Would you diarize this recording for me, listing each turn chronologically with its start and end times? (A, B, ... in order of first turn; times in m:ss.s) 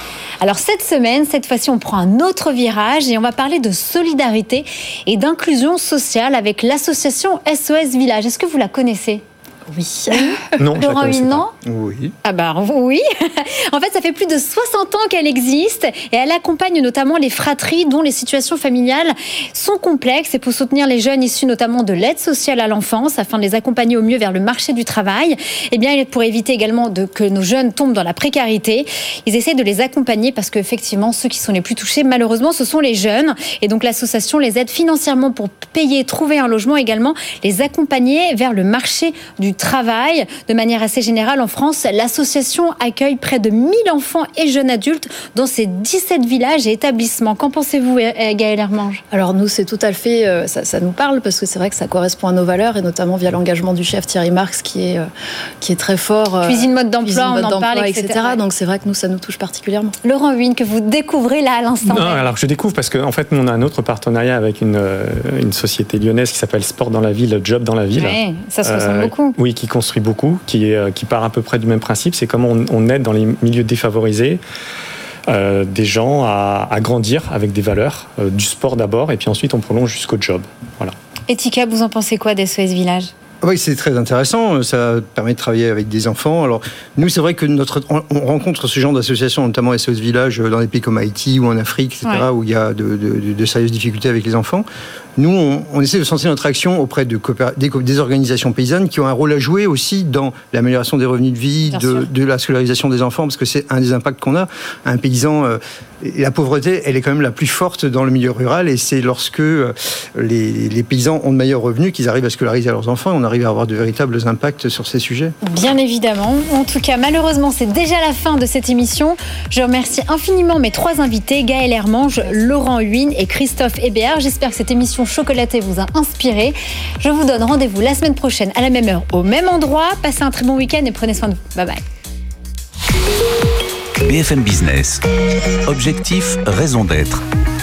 0:00.4-0:11.5 A
0:10.6-0:11.4 B
0:11.6-0:12.1 C
0:12.2-0:49.0 A
0:49.1-0:55.1 D
0:55.6-1:00.0 D
0:56.4-0:58.4 A
1:00.0-1:02.3 A
1:01.8-1:14.4 B
1:08.0-1:09.4 A
1:15.3-1:20.9 B
1:21.3-1:23.1 A
1:23.4-1:34.6 C
1:35.2-1:55.3 C
1:41.7-1:42.0 A
1:55.4-2:11.8 A
2:14.0-2:15.0 E
2:15.6-2:17.2 E